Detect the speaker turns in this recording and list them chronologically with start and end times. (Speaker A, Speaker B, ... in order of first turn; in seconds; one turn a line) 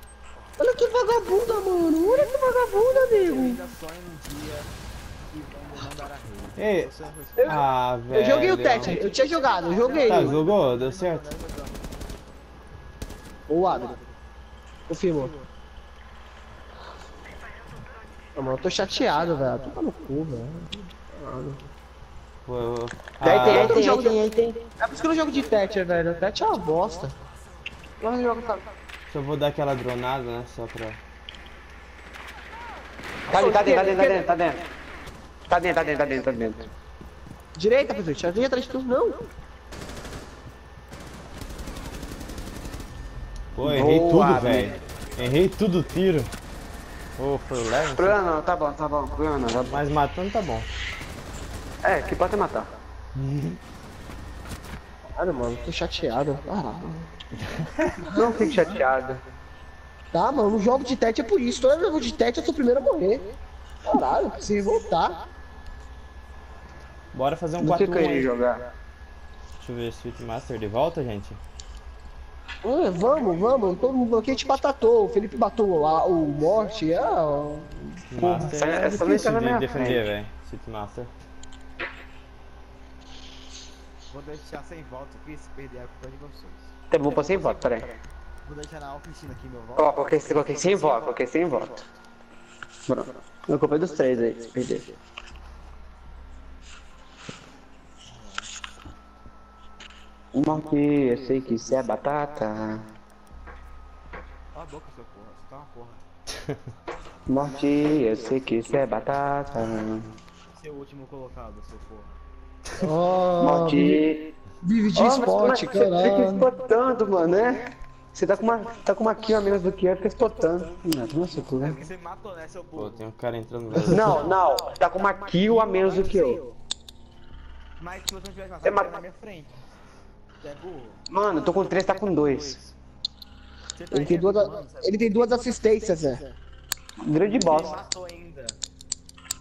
Speaker A: 0.6-3.6
Speaker B: 2.9-4.7
Speaker B: 5.3-7.6
Speaker C: 6.6-6.9
Speaker A: 7.4-10.4
Speaker C: 7.4-9.0
Speaker B: 9.5-11.8
Speaker C: 10.1-11.3
Speaker A: 13.5-14.0
Speaker A: 14.9-15.3
Speaker A: 18.4-21.6
Speaker C: 22.4-24.0
Speaker D: 23.2-24.7
Speaker A: 23.2-24.2
Speaker A: 24.8-27.1
Speaker A: 28.0-28.6
Speaker C: 29.1-31.0
Speaker D: 33.3-34.6
Speaker A: 33.3-34.2
Speaker D: 35.5-36.7
Speaker A: 37.5-39.2
Speaker C: 43.5-46.3
Speaker D: 43.6-44.8
Speaker C: 47.2-48.2
Speaker D: 48.0-49.8
Speaker C: 49.6-50.7
Speaker D: 51.8-52.7
Speaker C: 53.1-53.6
Speaker A: 55.2-57.1
Speaker D: 58.0-59.2
Speaker A: 58.1-58.4
Speaker A: 60.1-63.2
Speaker A: 63.9-65.2
Speaker C: 67.1-68.3
Speaker D: 67.6-68.7
Speaker C: 69.6-71.4
Speaker A: 72.6-78.0
Speaker C: 78.1-81.1
Speaker D: 78.2-80.1
Speaker B: 84.1-86.7
Speaker D: 86.9-88.0
Speaker B: 88.4-91.2
Speaker D: 89.8-91.8
Speaker D: 92.9-94.8
Speaker B: 98.1-98.5
Speaker D: 100.3-102.8
Speaker B: 104.5-106.0
Speaker D: 107.3-110.1
Speaker B: 110.5-112.2
Speaker A: 112.8-114.0
Speaker D: 113.4-114.3
Speaker A: 114.6-116.4
Speaker D: 114.9-121.8
Speaker B: 121.5-123.0
Speaker C: 122.7-124.3
Speaker D: 123.8-126.4
Speaker B: 125.6-126.4
Speaker B: 127.8-129.5
Speaker D: 128.6-128.9
Speaker B: 130.4-131.0
Speaker D: 131.1-132.6
Speaker B: 132.0-132.7
Speaker B: 133.8-135.1
Speaker A: 133.9-136.2
Speaker D: 137.0-137.8
Speaker B: 137.2-138.6